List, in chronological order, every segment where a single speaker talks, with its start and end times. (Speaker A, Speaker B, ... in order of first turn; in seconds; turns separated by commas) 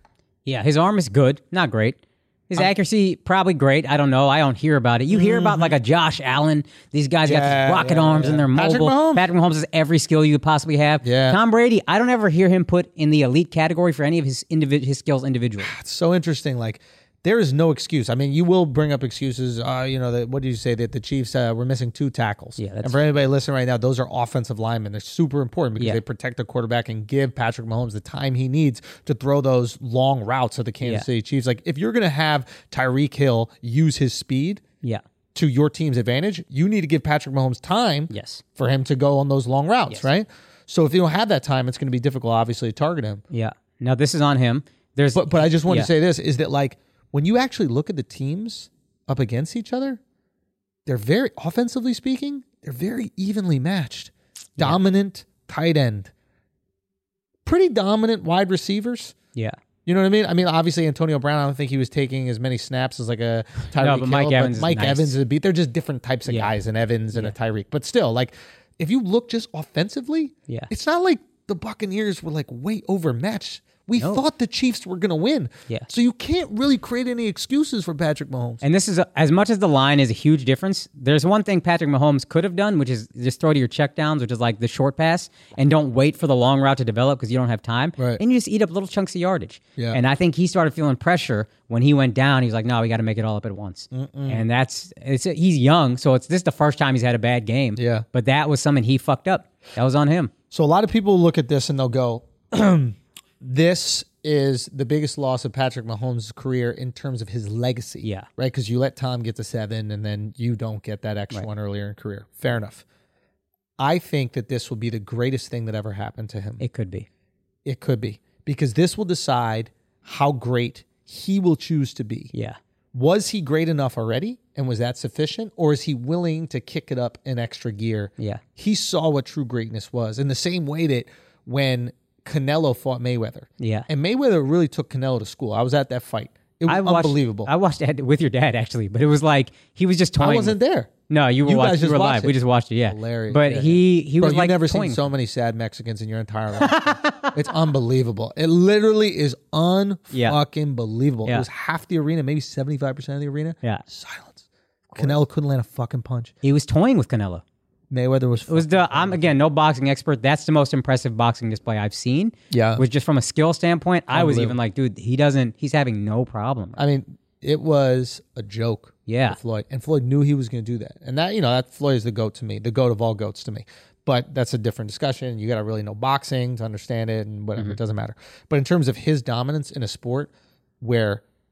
Speaker A: 0.5-2.0, Speaker A: 2.5-15.7, Speaker B: 5.1-5.7, Speaker B: 7.2-9.2, Speaker B: 11.0-11.4, Speaker B: 15.6-34.6, Speaker A: 22.6-22.9, Speaker B: 35.3-43.2, Speaker A: 38.1-38.4, Speaker A: 43.3-45.9, Speaker B: 45.1-50.0, Speaker B: 50.9-56.1, Speaker B: 57.4-59.1, Speaker B: 59.9-78.6, Speaker A: 63.8-65.1, Speaker A: 74.0-74.2, Speaker A: 78.6-100.3, Speaker B: 93.9-94.4, Speaker B: 97.8-98.0, Speaker B: 100.5-112.8, Speaker B: 113.8-116.6, Speaker A: 116.6-117.1, Speaker B: 117.6-122.3, Speaker A: 122.3-122.6, Speaker B: 122.9-137.5, Speaker A: 133.6-133.9, Speaker A: 136.7-140.6, Speaker B: 140.2-140.9, Speaker A: 141.1-145.0, Speaker B: 141.4-156.3, Speaker A: 146.6-147.3, Speaker A: 150.1-150.4, Speaker A: 154.9-155.2, Speaker A: 156.4-157.4, Speaker B: 157.9-159.3, Speaker A: 158.5-166.8, Speaker B: 162.5-162.8, Speaker B: 164.1-164.6, Speaker B: 166.8-181.2, Speaker A: 169.1-169.4